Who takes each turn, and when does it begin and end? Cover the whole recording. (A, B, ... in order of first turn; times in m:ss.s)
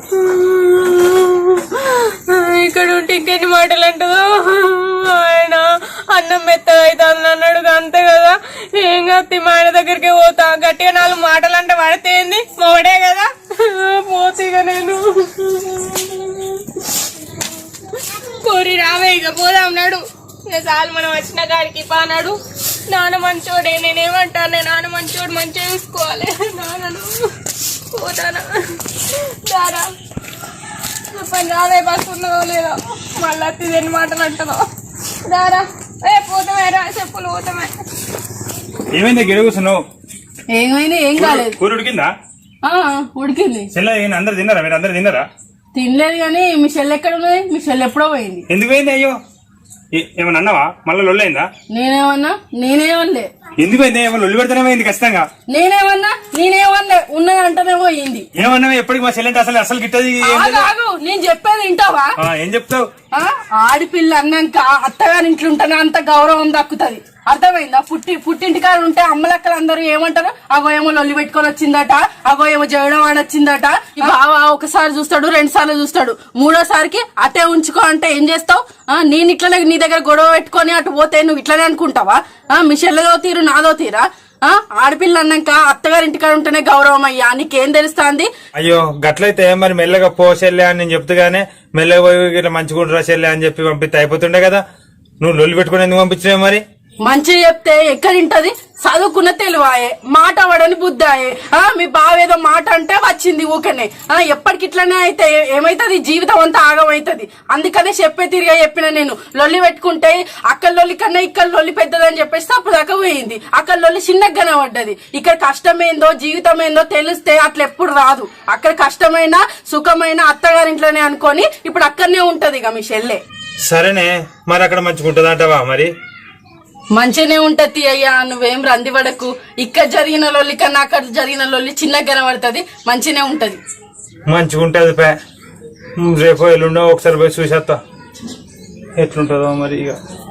0:00.2-0:16.6 A
0:17.9-0:22.4 A
0:22.9-0:27.2 A
0:27.9-0:29.9 A
0:31.1-0:34.6 A
0:35.3-0:37.7 A
0:39.0-0:39.8 B
0:40.5-0:41.6 C
0:41.2-0:42.1 B
0:42.6-0:43.7 C
0:43.7-0:45.3 B
0:45.7-0:48.4 C
0:48.5-0:49.2 B
0:49.9-0:51.5 B
0:51.7-0:53.3 C
0:53.6-0:55.3 B
0:55.5-0:58.3 C
0:58.4-1:00.7 B
1:00.2-1:02.1 C
1:02.2-1:02.8 B
1:03.1-1:28.3 C
1:28.6-1:34.6 B
1:35.2-1:36.6 B
1:37.0-2:03.2 C
2:03.6-2:05.9 B
2:06.9-2:13.6 C
2:14.3-2:15.2 B
2:16.0-2:17.8 B
2:19.0-2:20.0 B